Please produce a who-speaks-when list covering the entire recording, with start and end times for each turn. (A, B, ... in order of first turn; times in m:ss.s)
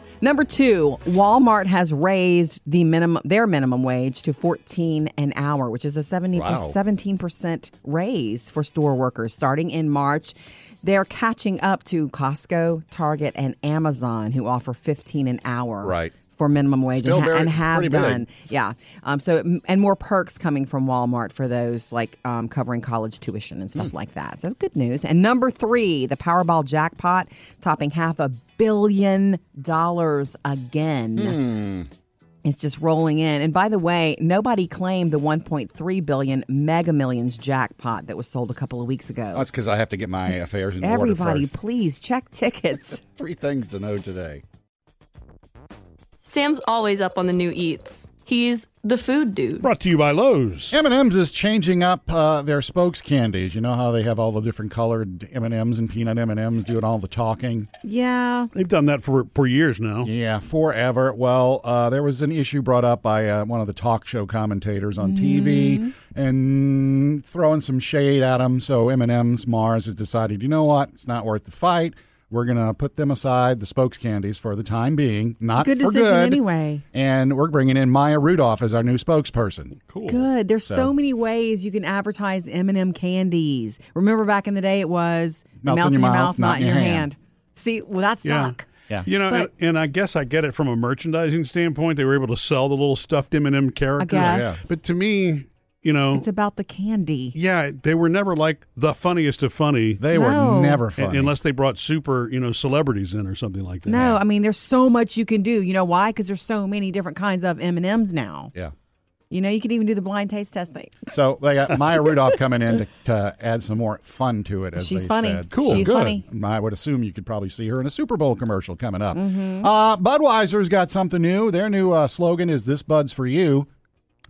0:00.2-0:31.4 A
0:06.3-0:06.8 B
0:15.8-0:16.1 B
0:16.9-0:18.3 B
0:31.2-0:31.9 B
0:32.4-0:39.5 A
0:39.3-0:41.6 B
0:40.8-0:43.0 A
0:43.1-0:44.4 B
0:46.2-0:49.7 C
0:49.6-0:50.8 D
0:50.7-0:57.7 B
0:57.8-0:58.5 A
0:58.5-1:00.1 D
1:00.0-1:19.8 B
1:05.0-1:05.9 A
1:15.6-1:16.8 A
1:19.9-1:20.2 D
1:20.1-1:28.7 A
1:25.6-1:27.1 B
1:28.2-1:36.2 D
1:34.0-1:34.6 A
1:34.2-1:34.6 B
1:36.1-1:37.4 A
1:37.4-1:40.0 D
1:40.0-1:41.3 B
1:40.1-1:40.8 A
1:41.0-1:44.2 D
1:43.9-1:48.5 A
1:49.3-1:51.1 A
1:51.1-2:03.7 B
1:54.8-1:56.2 A
1:55.5-1:56.2 D
1:59.1-1:59.7 A